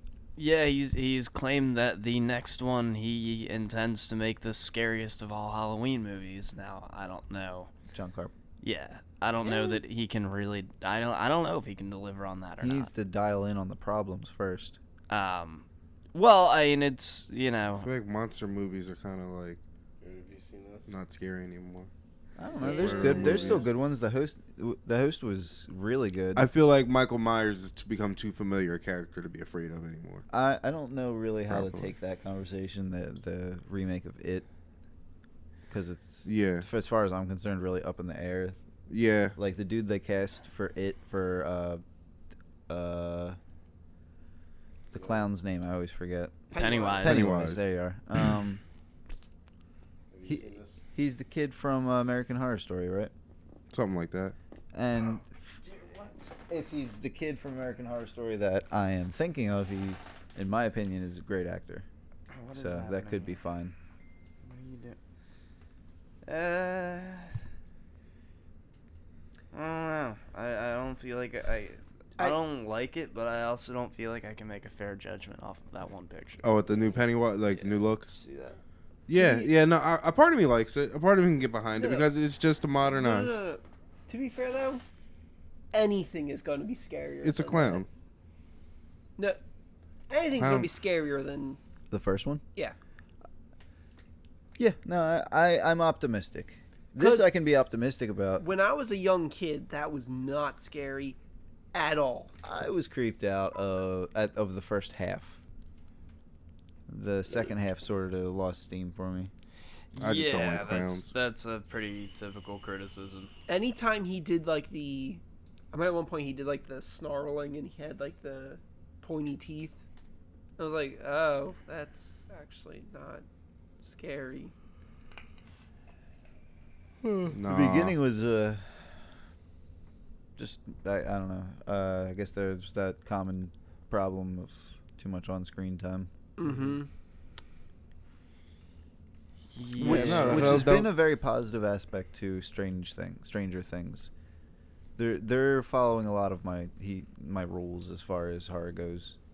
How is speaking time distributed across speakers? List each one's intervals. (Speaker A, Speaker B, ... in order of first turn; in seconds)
Speaker A: 0.4-7.7, 8.6-12.9, 15.1-17.9, 46.5-47.3, 62.3-63.4, 64.4-65.0, 66.2-67.3, 69.5-78.6, 109.9-113.3, 139.6-140.8
Speaker B: 7.9-8.3, 12.6-14.8, 22.4-26.5, 30.3-34.4, 35.7-38.6, 39.4-41.8, 42.7-43.4, 44.9-46.4, 46.9-48.6, 50.2-53.1, 54.7-55.6, 56.5-61.9, 62.5-63.7, 91.9-92.4, 94.6-98.5, 102.4-105.4, 106.9-109.3, 127.4-128.9, 130.4-136.1, 139.8-144.1, 145.0-149.2
Speaker C: 9.4-9.8, 22.6-23.6, 46.5-47.2, 79.1-79.5, 81.8-82.1, 82.8-84.8, 85.7-87.8, 90.1-91.6, 97.0-97.3, 98.4-101.2, 101.7-102.3, 113.5-119.8, 120.6-123.2, 123.8-124.5, 136.4-136.9
Speaker D: 17.8-19.6, 20.9-21.9, 22.7-23.6, 26.4-30.2, 31.5-31.9, 36.2-36.6, 38.9-39.4, 47.0-47.6, 53.7-54.4, 76.4-78.1, 79.1-83.4, 87.2-87.9, 90.4-90.7, 110.0-111.1, 127.0-127.9, 139.8-140.9
Speaker E: 20.0-21.0, 22.6-23.6, 44.9-45.2, 50.1-50.8